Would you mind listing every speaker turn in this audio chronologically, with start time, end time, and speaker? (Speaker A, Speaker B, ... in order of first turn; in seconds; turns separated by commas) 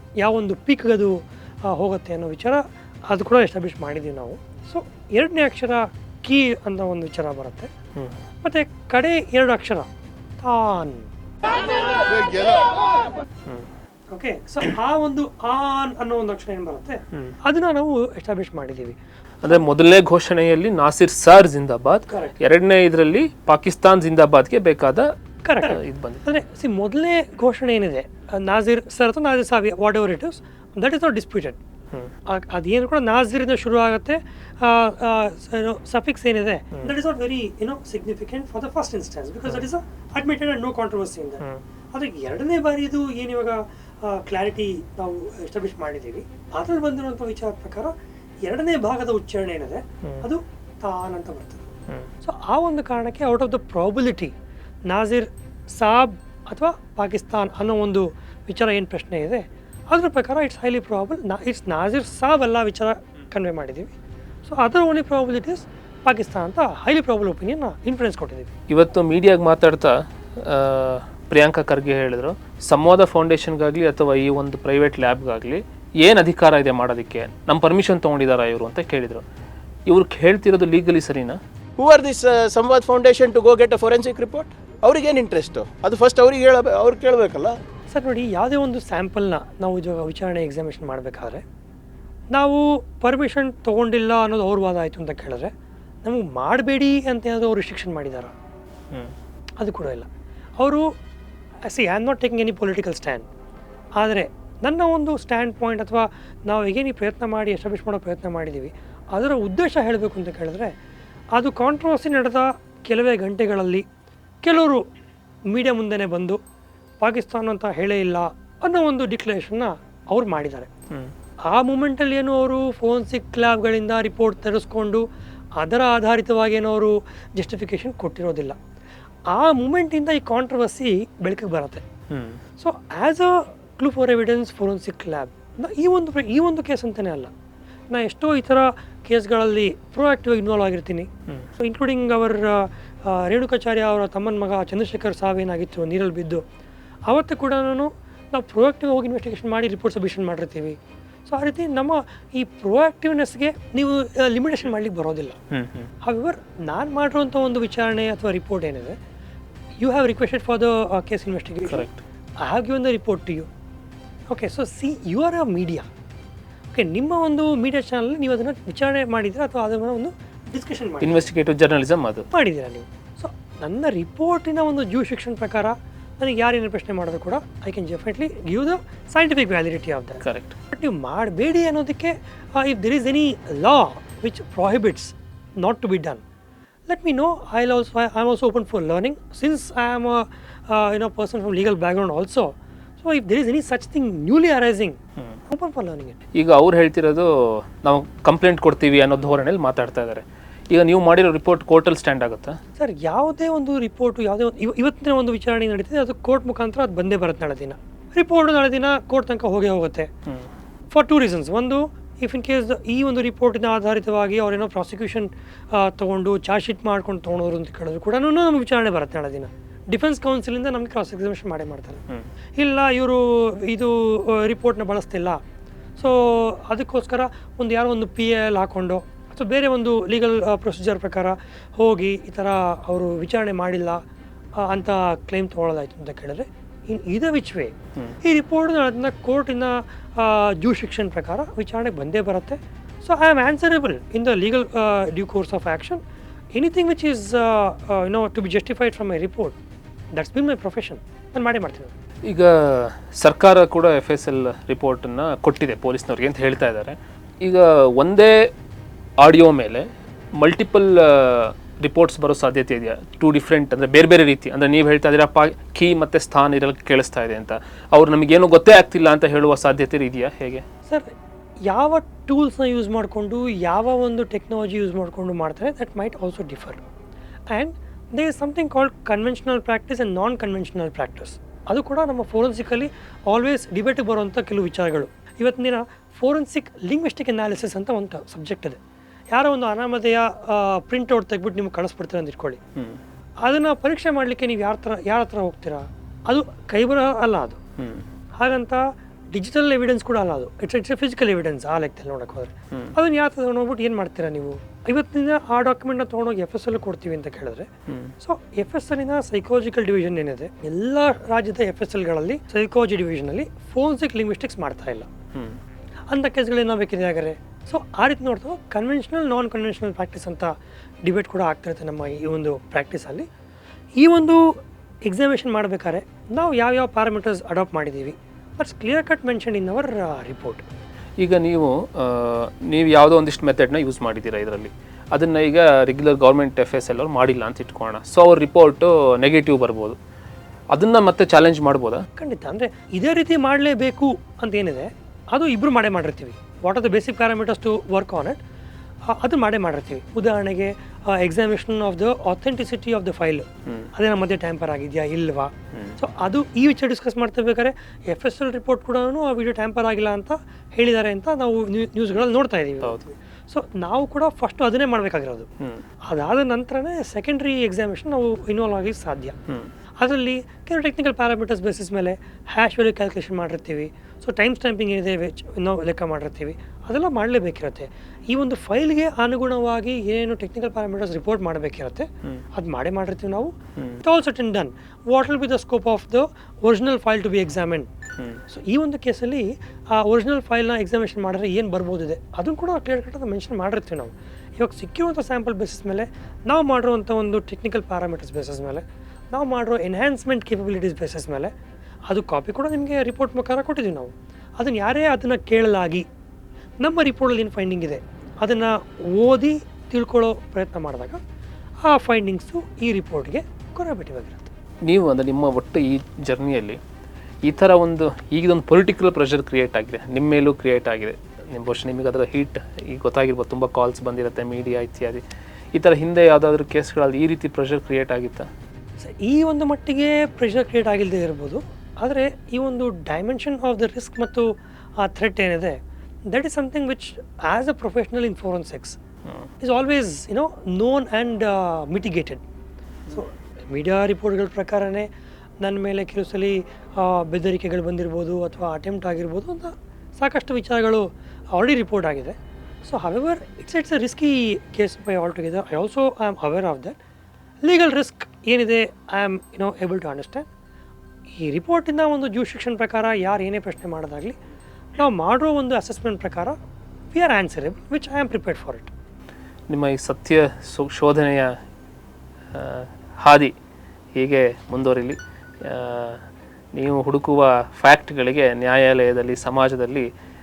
Speaker A: 0.2-7.7, Speaker A: 8.4-9.9, Speaker A: 10.4-11.1, Speaker A: 14.1-19.0, Speaker B: 19.4-25.1, Speaker A: 22.1-22.4, Speaker A: 25.4-31.6, Speaker B: 25.6-26.2, Speaker A: 32.2-47.9, Speaker A: 48.4-51.7, Speaker A: 52.2-54.3, Speaker A: 54.9-63.9, Speaker A: 64.4-68.5, Speaker B: 68.7-79.2, Speaker B: 79.9-81.4, Speaker C: 81.8-87.5, Speaker A: 87.9-91.4, Speaker A: 92.3-95.5, Speaker A: 96.0-98.3, Speaker A: 99.6-100.9, Speaker A: 101.7-103.3, Speaker A: 104.0-110.7, Speaker A: 111.4-113.8, Speaker A: 114.4-114.8, Speaker A: 115.5-116.4, Speaker A: 117.0-120.7, Speaker A: 121.5-125.0, Speaker A: 125.6-128.6, Speaker A: 129.3-131.8, Speaker B: 132.1-132.4, Speaker A: 132.6-137.3, Speaker A: 137.9-146.4, Speaker A: 147.1-155.4, Speaker B: 155.5-155.9, Speaker A: 156.0-159.0, Speaker A: 159.8-161.9, Speaker B: 161.7-162.0, Speaker A: 162.4-163.5, Speaker A: 164.3-165.9, Speaker A: 166.7-171.2, Speaker B: 171.0-172.2, Speaker A: 172.3-186.2, Speaker B: 180.2-180.6, Speaker A: 186.9-196.2, Speaker B: 196.3-202.6, Speaker A: 202.8-210.1, Speaker A: 210.9-222.0, Speaker A: 222.6-225.4, Speaker A: 226.0-234.0, Speaker A: 234.6-246.0, Speaker A: 246.6-249.6, Speaker A: 250.1-251.9, Speaker B: 252.3-258.5, Speaker B: 259.2-270.6, Speaker A: 271.7-276.8, Speaker A: 277.5-288.8, Speaker A: 289.3-292.6, Speaker A: 293.4-297.6, Speaker B: 297.8-298.1, Speaker A: 298.4-307.7, Speaker B: 307.9-308.1, Speaker A: 308.2-315.1, Speaker A: 316.1-323.3, Speaker A: 324.0-324.6, Speaker A: 325.1-330.6, Speaker B: 331.2-340.0, Speaker B: 340.7-342.1, Speaker A: 342.2-348.4, Speaker A: 349.1-365.5, Speaker B: 355.7-356.0, Speaker A: 366.1-369.3, Speaker A: 370.0-387.9, Speaker B: 383.8-384.0, Speaker A: 388.5-401.5, Speaker A: 402.1-406.1, Speaker A: 406.8-411.2, Speaker A: 411.9-414.5, Speaker B: 414.8-416.8, Speaker B: 417.4-425.2, Speaker B: 425.7-428.5, Speaker A: 429.0-434.5, Speaker A: 435.0-439.0, Speaker A: 439.6-442.4, Speaker A: 443.1-445.1, Speaker A: 445.6-457.0, Speaker A: 457.6-460.5, Speaker A: 461.4-464.4, Speaker A: 464.9-466.6, Speaker A: 467.1-468.9, Speaker B: 469.7-471.6, Speaker B: 472.5-473.5, Speaker B: 474.2-480.1